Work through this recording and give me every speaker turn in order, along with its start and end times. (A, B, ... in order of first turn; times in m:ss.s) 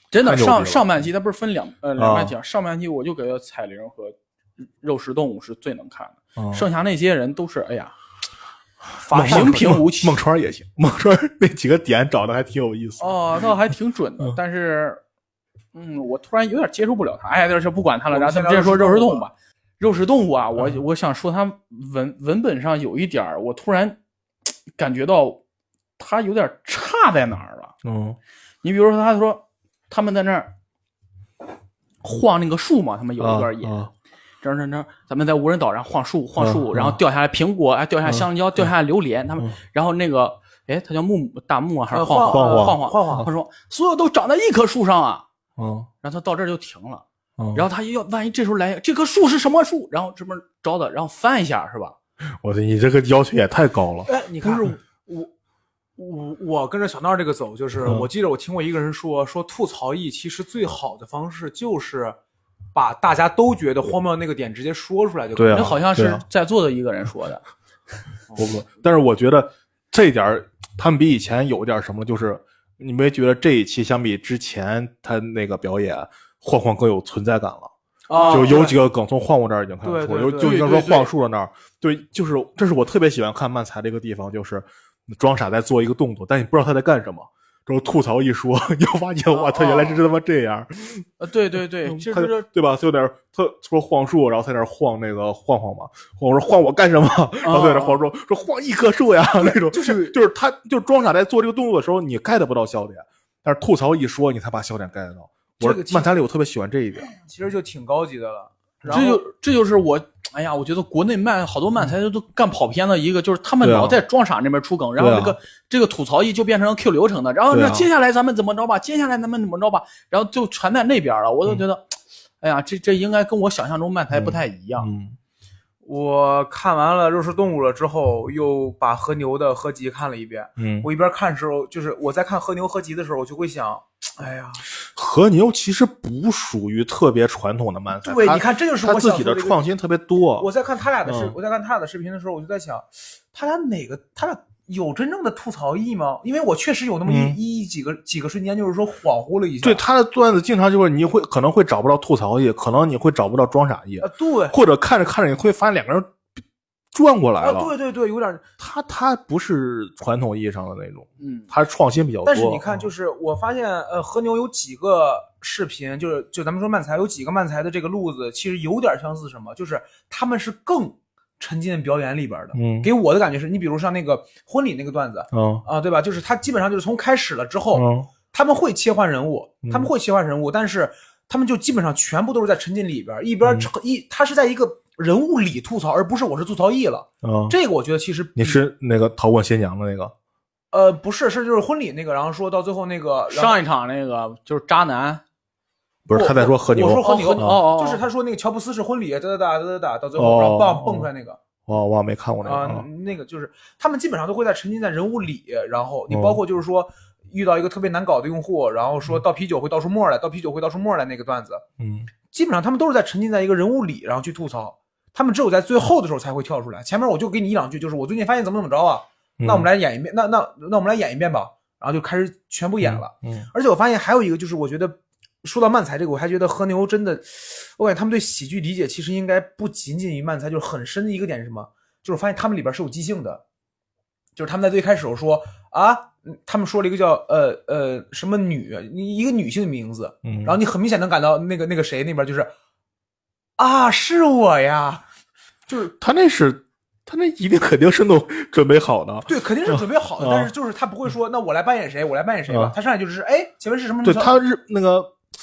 0:00.1-0:08.0 A
0:00.2-0:00.9 B
0:02.0-0:02.4 B
0:06.4-0:06.7 B
0:09.0-0:10.2 A
0:09.1-0:13.5 B
0:13.0-0:15.0 A
0:15.7-0:24.0 A
0:18.1-0:19.3 C
0:24.8-0:25.4 A
0:26.0-0:27.7 A
0:27.8-0:28.2 B
0:28.6-0:30.5 A
0:32.0-0:33.8 A
0:33.2-0:33.9 B
0:34.4-0:45.2 A
0:36.4-0:37.0 B
0:38.0-0:38.7 B
0:41.9-0:43.3 C
0:42.3-0:42.8 B
0:45.6-0:45.9 B
0:46.0-0:52.0 A
0:47.4-0:47.7 B
0:52.4-0:54.7 B
0:54.1-0:55.3 C
0:56.0-1:02.2 C
1:02.7-1:05.8 C
1:05.4-1:06.2 B
1:05.5-1:07.4 A
1:08.3-1:08.6 C
1:08.4-1:17.7 B
1:18.1-1:18.8 C
1:18.1-1:18.6 A
1:18.3-1:31.1 B
1:19.8-1:20.7 C
1:20.4-1:21.1 A
1:29.5-1:30.0 A
1:29.6-1:29.9 C
1:31.2-1:32.5 A
1:31.8-1:47.1 B
1:37.4-1:38.0 A
1:39.4-1:40.2 C
1:45.6-1:46.1 C
1:47.2-1:49.2 C
1:48.9-2:01.8 A
1:53.6-1:54.0 B
1:55.0-1:55.4 B
1:57.5-1:57.9 B
2:02.4-2:04.9 A
2:04.1-2:05.2 B
2:05.8-2:14.6 C
2:10.6-2:10.9 B
2:14.8-2:20.5 B
2:18.0-2:19.6 C
2:20.4-2:29.8 C
2:21.0-2:21.4 B
2:27.1-2:27.4 B
2:29.6-2:36.2 B
2:34.0-2:34.6 C
2:36.9-2:37.7 B
2:37.4-2:38.4 C
2:38.6-2:42.9 B
2:41.2-2:41.5 A
2:42.2-3:08.6 C
2:52.5-2:52.9 B
2:55.3-2:55.6 B
2:57.7-2:58.1 B
2:59.6-2:59.9 B
3:07.2-3:07.6 B
3:08.4-3:10.1 B
3:10.7-3:13.6 C
3:13.3-3:15.2 A
3:16.1-3:17.6 B
3:16.1-3:21.4 C
3:17.0-3:18.0 A
3:20.2-3:21.1 B
3:21.7-3:22.9 B
3:22.4-3:31.6 C
3:26.1-3:26.4 B
3:31.8-3:32.1 B
3:32.3-3:53.4 C
3:39.4-3:39.7 B
3:42.8-3:43.5 B
3:54.4-4:02.5 C
4:00.2-4:00.6 B
4:03.6-4:05.0 C
4:05.9-4:10.5 B
4:09.2-4:14.4 C
4:12.5-4:12.8 B
4:14.0-4:15.2 B